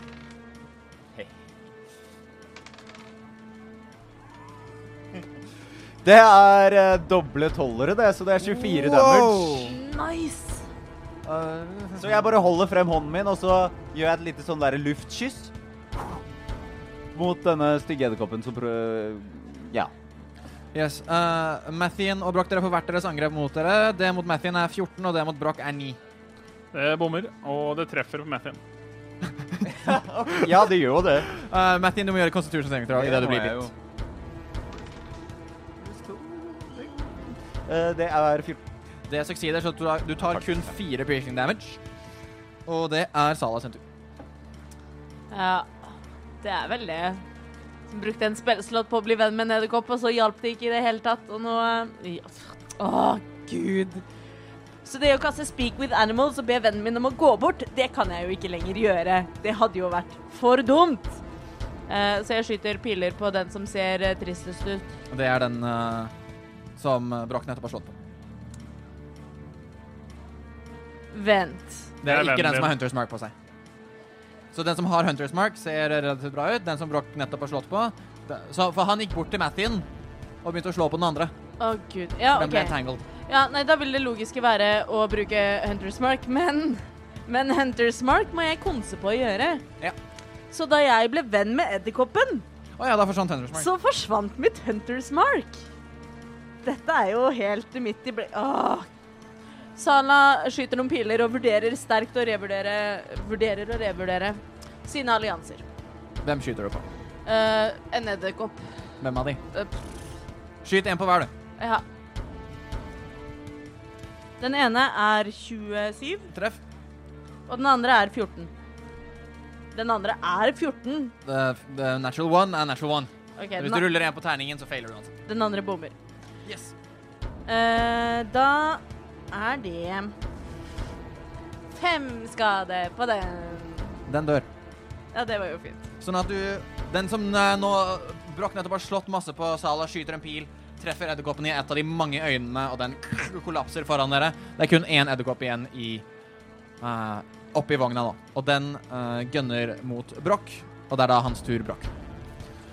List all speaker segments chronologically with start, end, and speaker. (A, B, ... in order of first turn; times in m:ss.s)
0:06.0-0:09.7 A
0:08.4-0:09.8 B
0:09.6-0:10.6 C
0:11.2-0:12.3 B
0:12.0-0:15.5 A
0:17.1-0:19.9 A
0:20.7-0:26.0 B
0:26.7-0:28.6 D
0:29.7-0:31.3 A
0:31.2-0:33.7 B
0:32.9-0:33.7 A
0:35.8-0:38.6 A
0:39.1-0:41.8 B
0:42.6-0:43.8 B
0:45.3-0:47.2 C
0:47.9-0:54.0 C
0:54.8-1:01.2 C
1:01.9-1:04.9 C
1:05.1-1:06.1 B
1:06.8-1:07.9 B
1:11.1-1:11.9 C
1:12.0-1:12.7 D
1:12.0-1:13.3 B
1:14.5-1:19.8 B
1:20.4-1:21.3 B
1:21.6-1:29.6 C
1:22.3-1:23.0 B
1:30.5-1:32.4 C
1:32.8-1:33.7 B
1:33.5-1:35.6 C
1:36.6-1:38.9 C
1:39.8-1:45.6 C
1:46.2-1:46.8 B
1:47.2-1:48.7 C
1:49.0-1:49.4 B
1:50.6-1:51.3 B
1:51.6-1:51.8 C
1:54.4-1:56.3 C
1:56.3-1:56.6 B
1:57.5-1:58.5 C
1:59.7-2:01.1 C
2:01.2-2:05.1 B
2:03.4-2:03.9 C
2:05.2-2:05.9 C
2:06.4-2:06.7 B
2:07.5-2:10.1 C
2:11.7-2:14.0 C
2:14.0-2:14.5 B
2:15.1-2:15.8 C
2:16.0-2:26.0 B
2:26.8-2:31.9 B